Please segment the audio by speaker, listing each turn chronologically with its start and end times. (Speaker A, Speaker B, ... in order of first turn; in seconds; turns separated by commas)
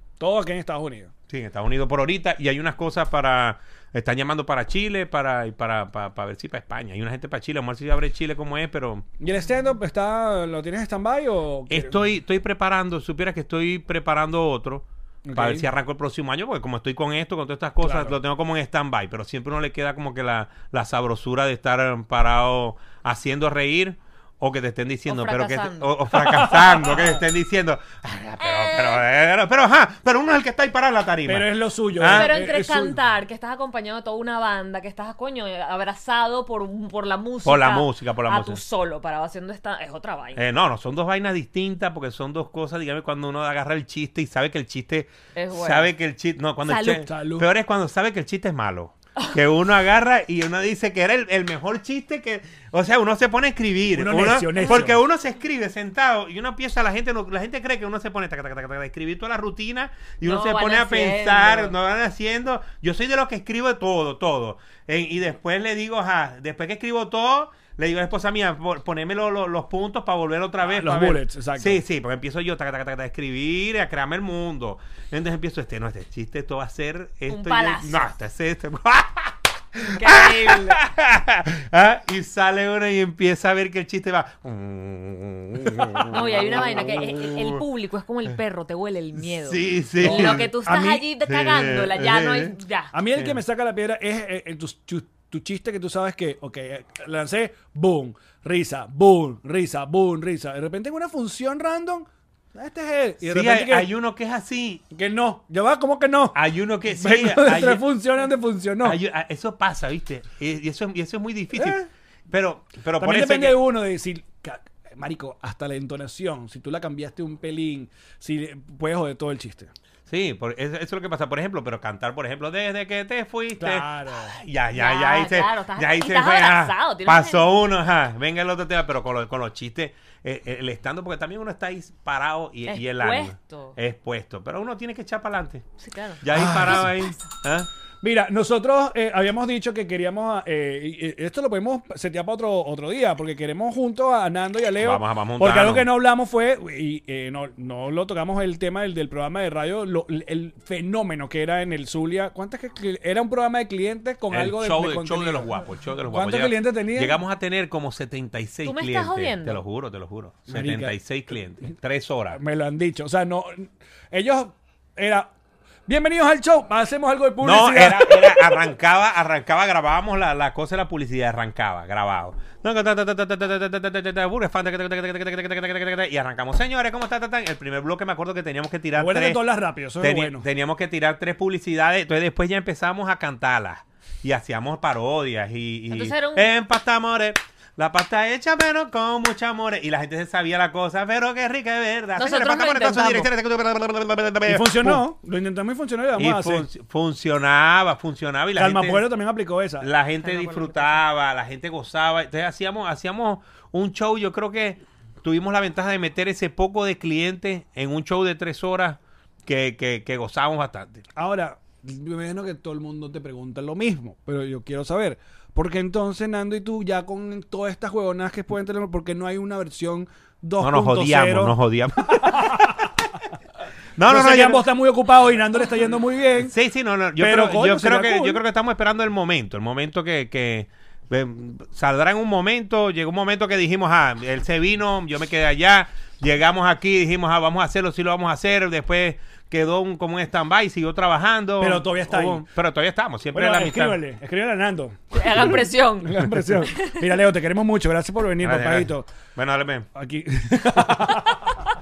Speaker A: 0.2-1.1, Speaker B: 1.3-9.1, Speaker A: 9.2-12.0, Speaker B: 11.7-32.3, Speaker A: 15.3-15.7, Speaker A: 17.8-18.2, Speaker C: 25.1-25.9, Speaker A: 26.2-27.2, Speaker C: 28.4-29.0, Speaker A: 31.3-33.0, Speaker C: 32.1-40.5, Speaker B: 37.5-38.6, Speaker B: 40.4-87.6, Speaker C: 45.4-45.9, Speaker C: 46.6-47.0, Speaker A: 47.0-47.5, Speaker A: 53.9-55.0, Speaker C: 54.6-54.9, Speaker C: 60.2-61.8, Speaker A: 70.6-71.8, Speaker C: 77.3-78.1, Speaker C: 79.8-80.8, Speaker C: 86.1-92.9, Speaker B: 89.4-90.5, Speaker A: 90.0-91.0, Speaker B: 91.2-92.6, Speaker A: 92.9-103.9, Speaker B: 103.2-104.8, Speaker A: 104.9-109.0, Speaker B: 106.3-107.8, Speaker B: 108.8-113.6, Speaker A: 111.5-111.9, Speaker A: 113.0-119.7, Speaker B: 120.1-135.7, Speaker A: 123.6-124.4, Speaker C: 124.7-127.5, Speaker C: 132.7-133.8, Speaker C: 135.8-137.3, Speaker B: 136.2-137.7, Speaker A: 136.3-136.9, Speaker A: 138.0-155.5, Speaker B: 144.8-145.9, Speaker B: 154.3-162.4, Speaker A: 156.1-157.2, Speaker C: 158.7-159.6, Speaker A: 160.5-161.0, Speaker A: 162.3-165.3, Speaker A: 165.9-168.6, Speaker B: 167.4-179.4, Speaker A: 179.0-180.5, Speaker B: 180.0-195.0, Speaker C: 185.9-186.4, Speaker C: 192.2-193.3, Speaker A: 194.5-196.7, Speaker B: 196.2-199.1, Speaker A: 198.6-199.9, Speaker B: 199.8-211.1, Speaker C: 200.2-201.0, Speaker A: 211.2-222.9, Speaker B: 220.6-223.0, Speaker B: 224.0-224.7, Speaker A: 224.1-226.5, Speaker B: 226.4-244.0, Speaker A: 227.2-228.4, Speaker A: 241.6-242.5, Speaker A: 243.3-249.1, Speaker C: 245.1-247.0, Speaker B: 248.4-249.9, Speaker A: 249.9-251.5